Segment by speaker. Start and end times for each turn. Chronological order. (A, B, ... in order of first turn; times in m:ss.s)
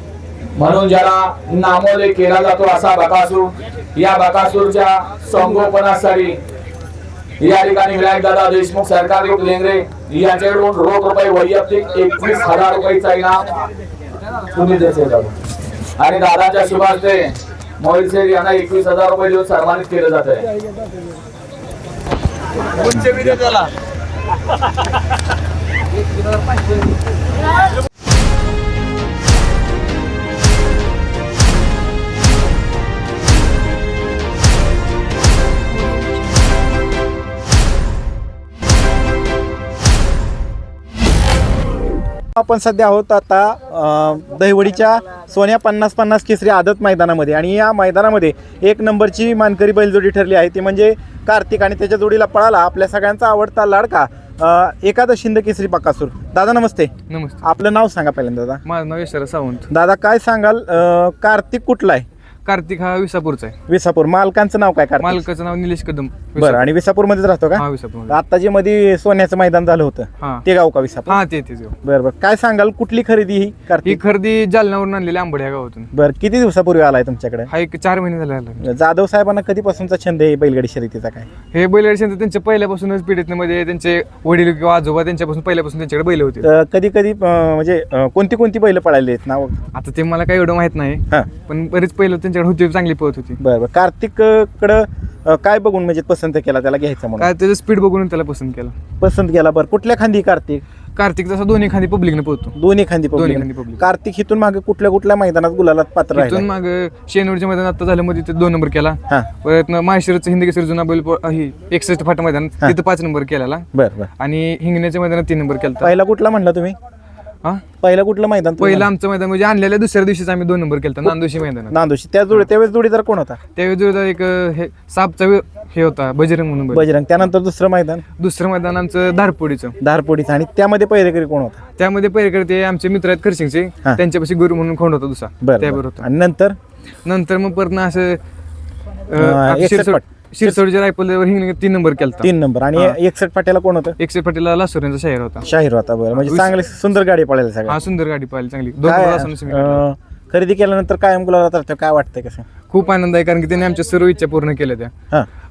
0:00.6-0:06.4 A
0:07.4-0:13.6 A
0:14.5-0:15.4 A
0:16.0-0:20.5 A
0:22.7-0:23.7 A
0:42.3-0:56.9 B
0:57.1-0:57.4 C
0:57.4-0:58.6 B
0:58.6-0:59.7 C
0:59.7-1:02.0 B
1:02.4-1:03.5 C
1:03.7-1:05.2 B
1:05.0-1:06.7 C
1:06.4-1:11.2 B
1:07.6-1:08.2 C
1:11.1-1:11.7 C
1:11.8-1:14.0 B
1:13.8-1:15.9 C
1:15.9-1:17.5 B
1:17.5-1:18.6 C
1:18.6-1:21.3 B
1:21.5-1:26.5 C
1:26.4-1:29.6 B
1:29.7-1:33.4 C
1:33.4-1:37.3 B
1:37.2-1:38.7 C
1:39.0-1:40.6 B
1:41.0-1:42.6 C
1:42.6-1:46.4 B
1:43.1-1:43.8 C
1:46.1-1:53.6 C
1:53.7-1:54.1 B
1:54.2-1:55.9 C
1:55.8-1:56.8 B
1:57.8-1:58.9 B
1:58.6-2:01.8 C
2:01.7-2:03.4 B
2:03.6-2:06.9 C
2:06.7-2:08.0 B
2:08.2-2:09.7 C
2:09.8-2:11.6 B
2:11.8-2:16.0 C
2:15.4-2:16.6 B
2:17.0-2:18.2 C
2:19.1-2:23.0 C
2:19.2-2:20.6 B
2:22.2-2:24.0 B
2:24.0-2:25.4 C
2:25.4-2:27.8 B
2:26.2-2:26.5 C
2:27.7-2:29.8 C
2:28.8-2:32.4 B
2:32.7-2:34.9 C